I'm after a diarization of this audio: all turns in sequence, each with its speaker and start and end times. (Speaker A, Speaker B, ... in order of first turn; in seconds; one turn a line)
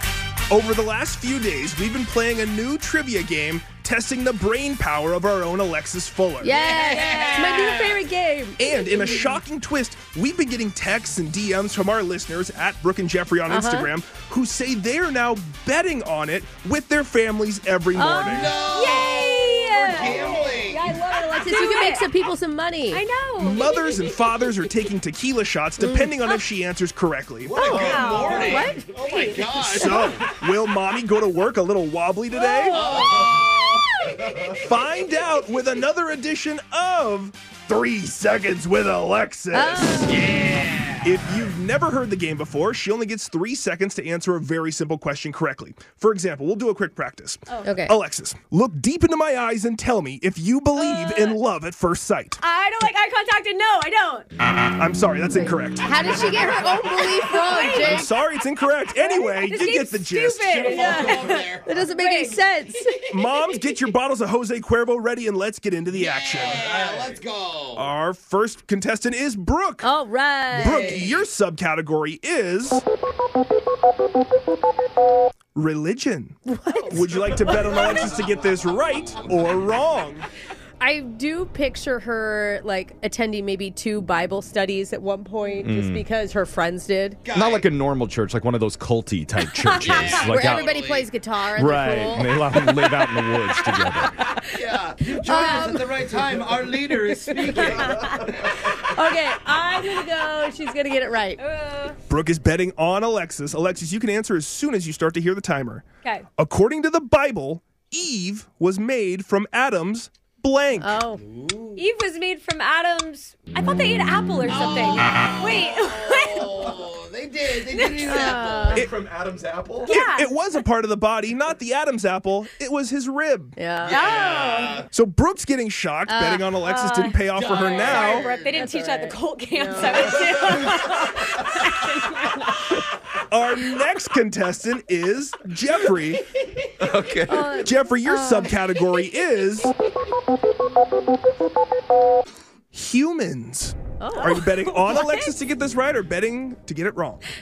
Speaker A: 0.5-6.6
Speaker B: 6.4-9.3
Speaker C: 6.5-8.0
Speaker A: 8.6-18.6
Speaker B: 13.5-13.9
Speaker B: 17.9-18.3
Speaker C: 18.2-20.8
Speaker D: 18.6-22.1
Speaker B: 19.8-23.0
Speaker D: 22.9-24.6
Speaker A: 23.4-28.5
Speaker B: 25.8-26.1
Speaker C: 27.4-30.2
Speaker D: 27.6-29.7
Speaker B: 27.9-28.9
Speaker A: 29.8-32.8
Speaker D: 32.3-33.3
Speaker B: 32.7-33.2
Speaker C: 32.7-34.5
Speaker A: 34.5-40.3
Speaker B: 39.5-40.2
Speaker C: 40.1-41.2
Speaker A: 41.0-52.4
Speaker D: 47.5-47.7
Speaker B: 47.6-47.9
Speaker D: 50.8-51.4
Speaker D: 52.4-54.2
Speaker A: 54.6-55.9
Speaker B: 55.8-58.1
Speaker D: 57.0-58.1
Speaker A: 57.6-60.9
Speaker D: 59.0-62.4
Speaker C: 60.5-61.8
Speaker B: 60.7-61.0
Speaker B: 61.6-62.9
Speaker C: 62.9-63.2
Speaker A: 63.1-66.8
Speaker C: 65.9-67.9
Speaker A: 67.8-69.9
Speaker B: 69.8-71.0
Speaker A: 70.5-72.8
Speaker C: 70.6-71.3
Speaker A: 75.5-80.2
Speaker B: 76.5-77.0
Speaker C: 77.3-79.8
Speaker B: 80.8-87.2
Speaker E: 85.6-86.0
Speaker C: 87.2-87.7
Speaker E: 87.3-90.8
Speaker D: 89.6-90.1
Speaker C: 89.8-91.1
Speaker B: 90.1-92.4
Speaker E: 91.5-94.2
Speaker D: 93.7-94.0
Speaker C: 94.5-98.5
Speaker B: 95.1-96.0
Speaker B: 97.3-97.7
Speaker B: 98.8-101.4
Speaker D: 101.4-102.0
Speaker A: 102.1-105.8
Speaker A: 106.4-111.0
Speaker B: 110.8-111.2
Speaker C: 111.1-111.8
Speaker D: 111.8-116.7
Speaker C: 114.5-118.8
Speaker D: 117.7-118.5
Speaker B: 118.0-118.8
Speaker E: 118.7-119.9
Speaker D: 119.9-120.4
Speaker A: 119.9-123.6
Speaker B: 123.6-124.5
Speaker C: 123.8-124.9
Speaker D: 123.9-124.8
Speaker A: 124.9-128.2
Speaker B: 126.1-127.1
Speaker D: 126.8-127.1
Speaker C: 127.3-128.6
Speaker D: 127.7-132.8
Speaker B: 128.5-130.7
Speaker A: 133.3-136.2
Speaker E: 136.8-137.5
Speaker B: 137.3-138.5
Speaker A: 137.6-139.7
Speaker A: 142.7-147.2
Speaker B: 144.0-144.5
Speaker D: 144.3-145.3